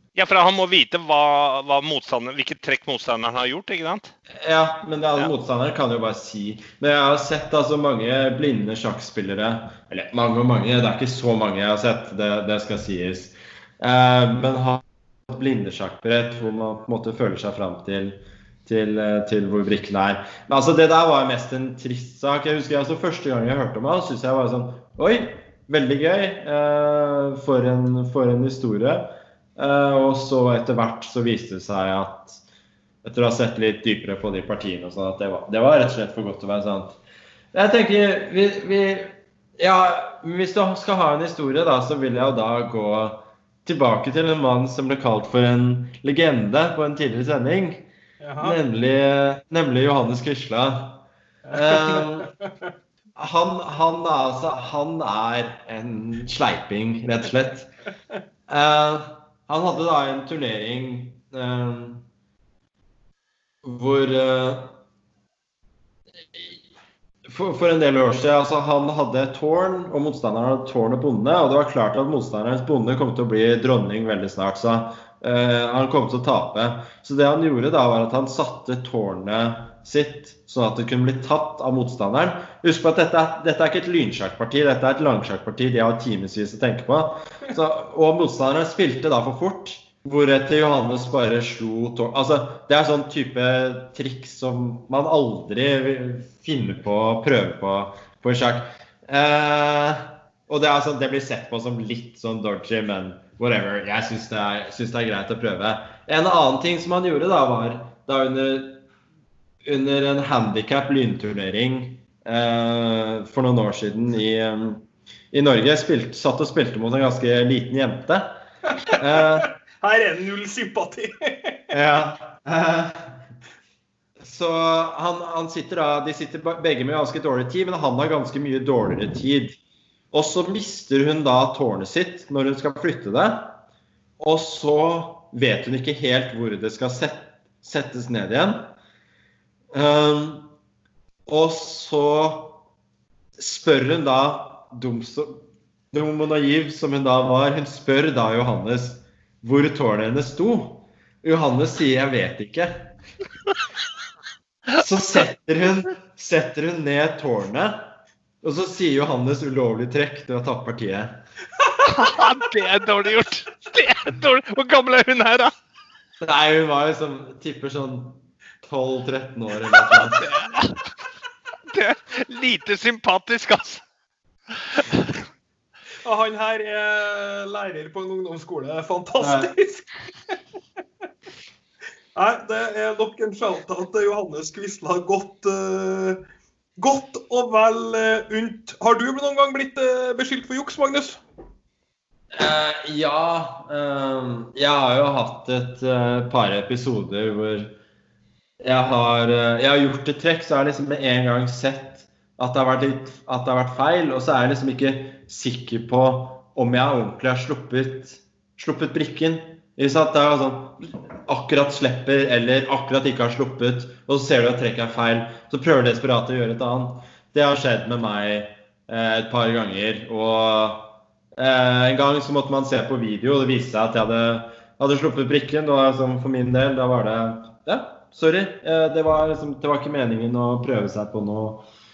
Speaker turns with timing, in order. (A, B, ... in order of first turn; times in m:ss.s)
0:00.1-0:04.1 A
0:04.3-0:32.4 B
0:33.0-0:37.0 B
0:37.5-0:47.8 B
0:48.2-0:48.6 C
0:48.4-0:52.3 B
0:51.5-0:52.5 C
0:53.2-0:57.7 B
0:58.5-1:02.0 B
1:03.6-1:04.8 B
1:07.2-1:48.8 B
1:49.6-1:59.5 B
1:59.4-2:01.7 C
2:01.7-2:03.2 B
2:04.2-2:09.6 B
2:10.1-2:13.6 B
2:14.2-2:18.7 B
2:19.7-2:20.5 B
2:21.2-2:22.6 B
2:23.4-2:32.9 B
2:34.8-2:41.2 B
2:41.8-2:45.5 A
2:46.2-2:50.2 B
2:50.2-2:50.9 A
2:51.7-2:53.8 A
2:54.7-2:55.1 A
2:56.0-2:59.9 C
2:59.2-2:59.5 B
3:02.1-3:06.2 C
3:06.8-3:11.2 C
3:12.3-3:17.7 B
3:18.6-3:51.6 B